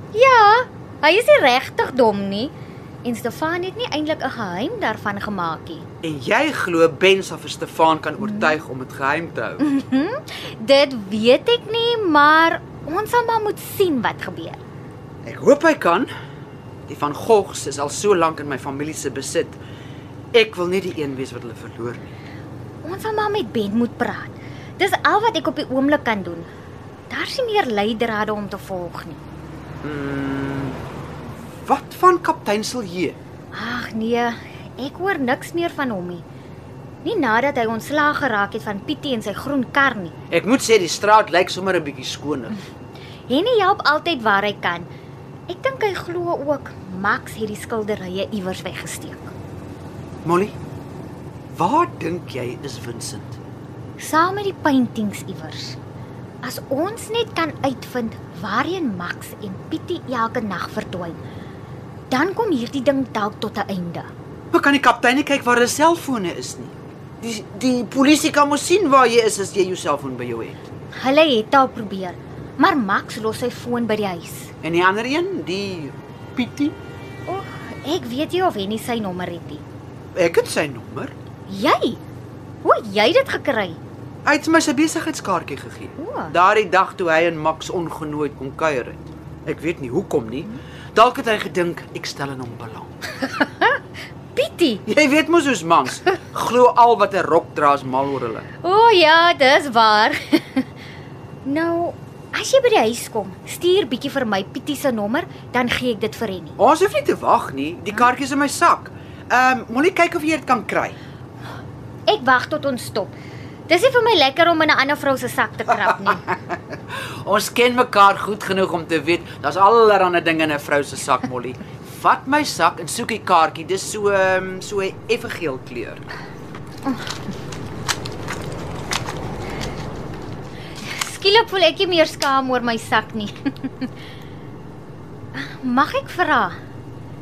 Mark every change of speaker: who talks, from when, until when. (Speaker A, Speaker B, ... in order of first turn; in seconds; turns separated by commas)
Speaker A: 0.1-5.9, Speaker B: 6.0-9.7, Speaker A: 8.2-8.6, Speaker A: 9.6-14.6, Speaker B: 15.2-16.1, Speaker B: 16.9-19.6, Speaker B: 20.3-22.1, Speaker A: 22.8-26.5, Speaker A: 27.1-29.2, Speaker B: 29.8-30.8, Speaker B: 31.6-33.2, Speaker A: 33.5-36.2, Speaker A: 37.0-40.1, Speaker B: 40.3-42.6, Speaker A: 43.3-44.9, Speaker A: 45.5-49.3, Speaker B: 50.2-50.5, Speaker B: 51.5-53.4, Speaker A: 54.0-55.8, Speaker A: 56.4-61.2, Speaker A: 62.1-64.1, Speaker B: 64.5-70.6, Speaker A: 71.0-74.5, Speaker B: 74.6-76.8, Speaker A: 77.3-79.6, Speaker B: 80.1-81.1, Speaker A: 81.5-82.0, Speaker A: 82.6-83.8, Speaker B: 84.2-92.9, Speaker A: 86.0-86.3, Speaker A: 93.2-93.8, Speaker A: 94.3-94.8, Speaker B: 94.9-98.5, Speaker A: 98.6-100.7, Speaker A: 101.4-106.6, Speaker B: 106.6-111.0, Speaker A: 112.1-113.1, Speaker A: 113.7-116.3, Speaker B: 116.0-116.6, Speaker B: 117.2-126.0, Speaker A: 130.8-133.9, Speaker A: 135.3-136.6